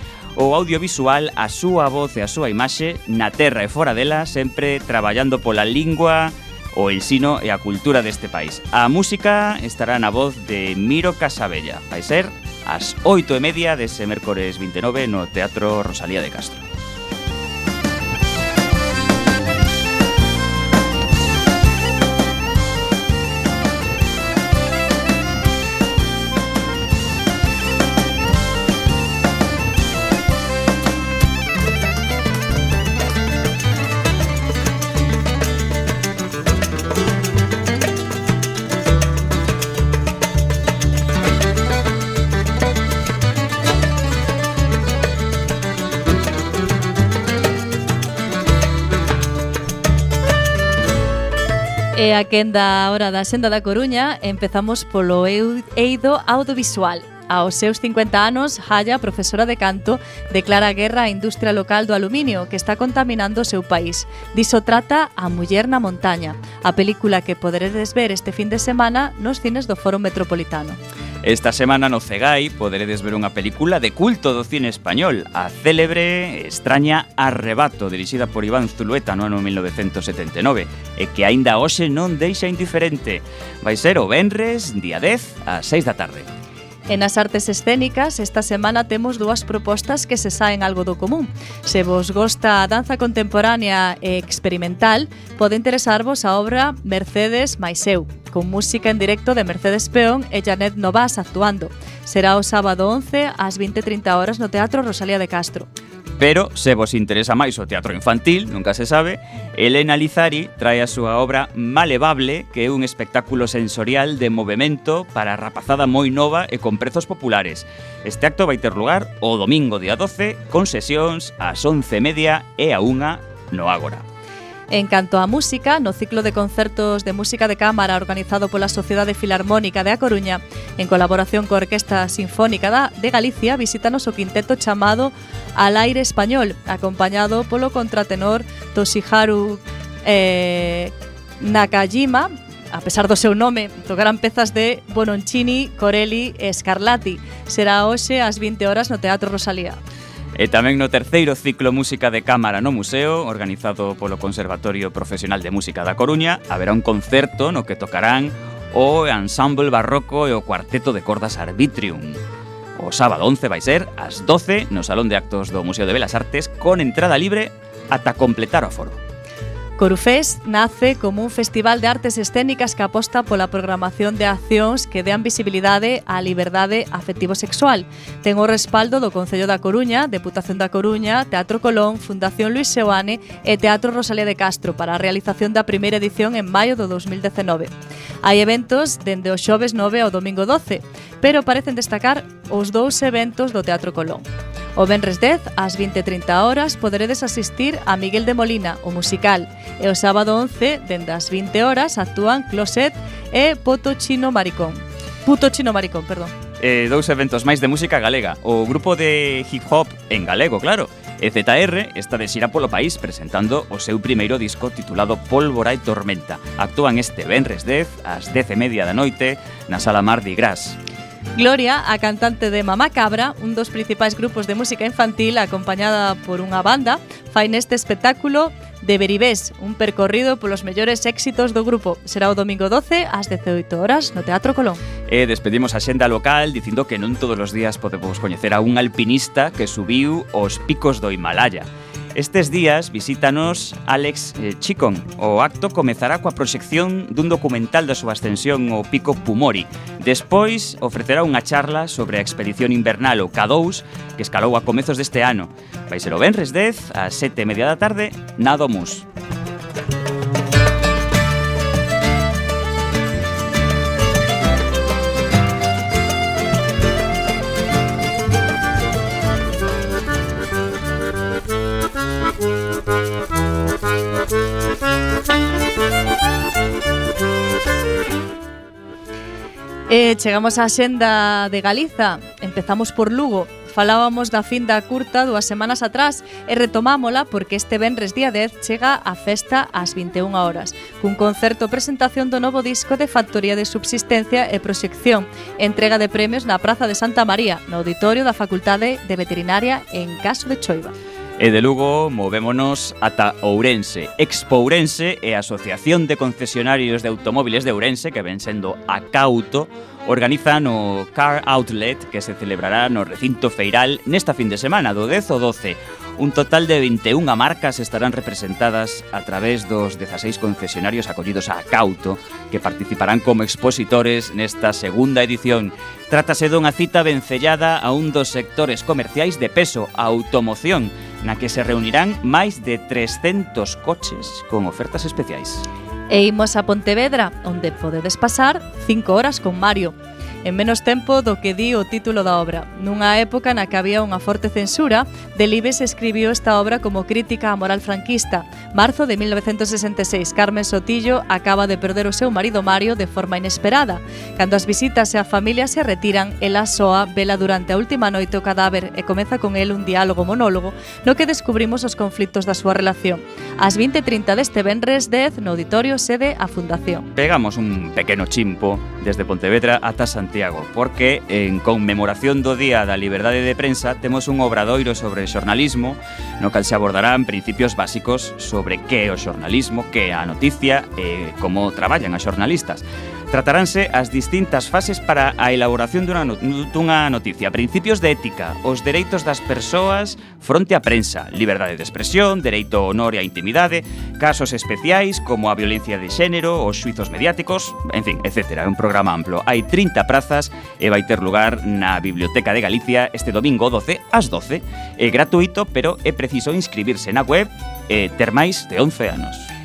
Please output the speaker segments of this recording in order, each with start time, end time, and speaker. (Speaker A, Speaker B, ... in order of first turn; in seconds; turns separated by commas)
Speaker A: 0.3-16.7, Speaker B: 51.9-70.8, Speaker A: 71.2-86.3, Speaker B: 86.9-105.7, Speaker A: 106.2-124.0, Speaker B: 124.7-149.8, Speaker A: 150.3-162.2, Speaker A: 162.8-169.0, Speaker B: 169.8-187.7, Speaker B: 188.2-194.2, Speaker B: 194.8-206.3, Speaker A: 206.6-220.8, Speaker B: 221.3-234.8, Speaker A: 235.1-259.0, Speaker B: 279.9-300.9, Speaker A: 301.4-335.7, Speaker B: 336.1-367.1, Speaker A: 367.1-409.5